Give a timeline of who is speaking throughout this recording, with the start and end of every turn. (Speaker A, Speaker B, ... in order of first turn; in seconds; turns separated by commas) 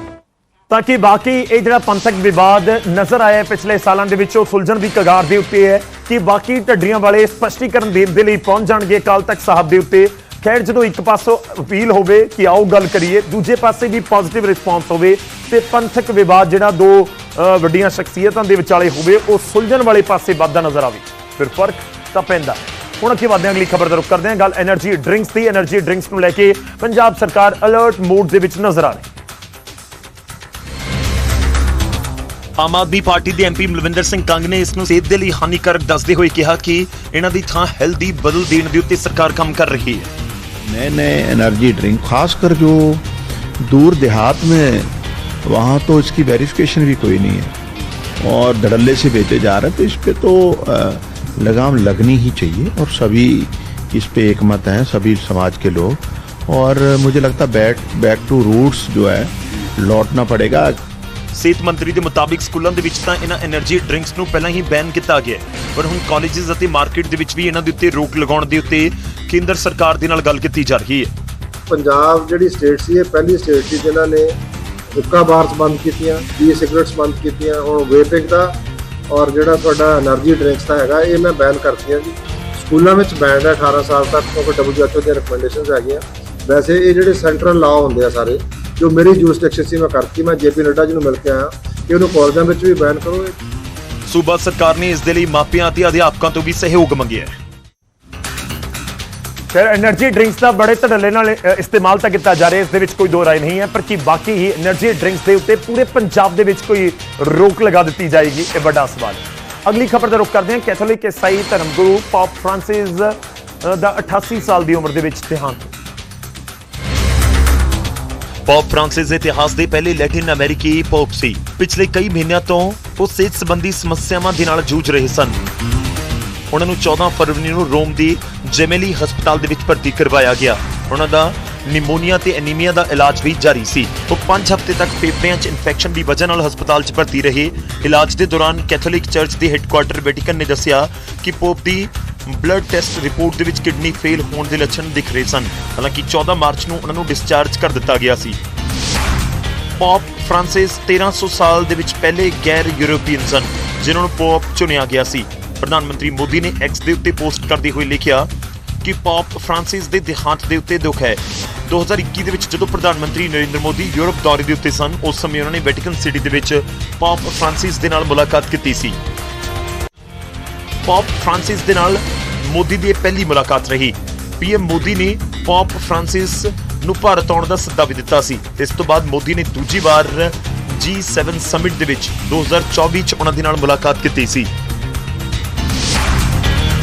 Speaker A: 0.7-29.1, Speaker B: 32.6-40.1, Speaker C: 40.6-43.1, Speaker C: 43.6-44.9, Speaker C: 45.5-47.6, Speaker C: 48.2-60.8, Speaker B: 61.3-71.1, Speaker D: 71.7-74.3, Speaker D: 75.0-78.6, Speaker D: 79.1-93.3, Speaker B: 94.1-97.3, Speaker A: 99.5-115.7, Speaker B: 118.5-125.4, Speaker B: 126.5-148.4, Speaker B: 149.8-158.3, Speaker B: 158.8-169.0, Speaker B: 170.8-184.5